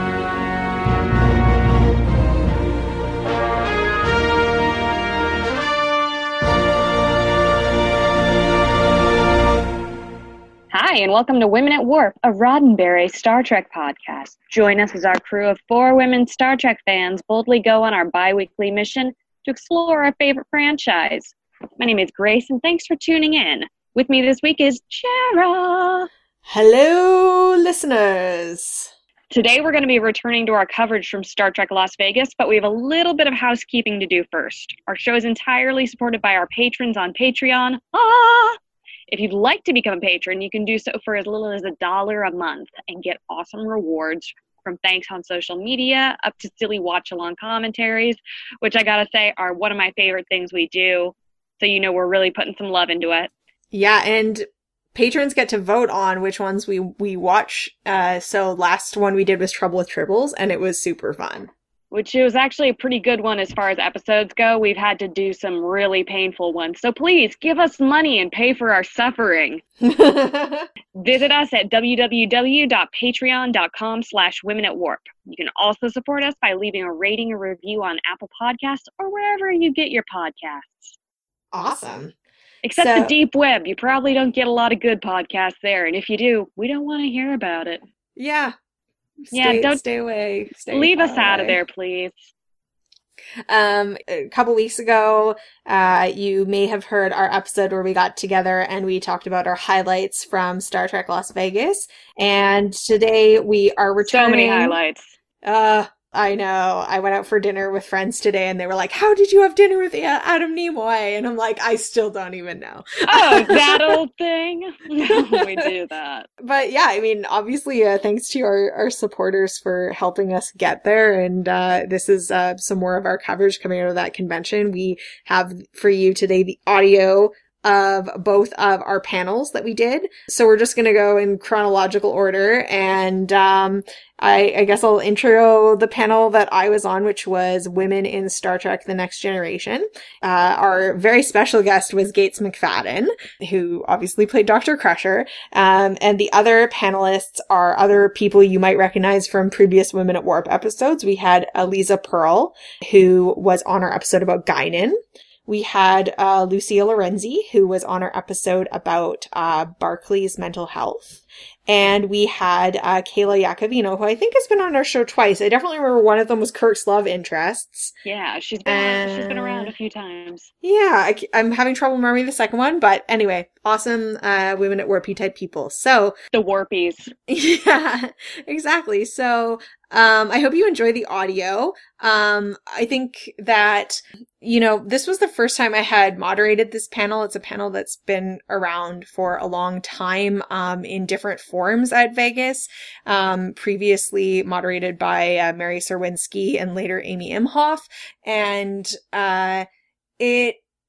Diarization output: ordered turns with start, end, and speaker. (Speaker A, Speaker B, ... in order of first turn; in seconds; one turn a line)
Speaker A: 10.7-26.1
Speaker B: 26.5-28.9
Speaker A: 29.3-38.6
Speaker A: 39.1-53.3
Speaker B: 53.7-61.5
Speaker A: 61.9-69.6
Speaker B: 69.8-70.7
Speaker A: 71.0-80.9
Speaker B: 81.5-82.1
Speaker A: 82.6-87.8
Speaker B: 82.7-83.1
Speaker B: 88.2-88.5
Speaker B: 89.3-91.6
Speaker A: 89.3-89.8
Speaker A: 90.6-92.2
Speaker B: 93.5-104.8
Speaker A: 104.0-105.1
Speaker B: 105.4-114.0
Speaker A: 113.1-116.2
Speaker B: 115.0-115.7
Speaker B: 116.4-167.9
Speaker A: 168.0-170.5
Speaker B: 168.7-169.7
Speaker B: 170.6-176.1
Speaker A: 176.3-177.1
Speaker B: 177.3-199.7
Speaker B: 200.2-200.6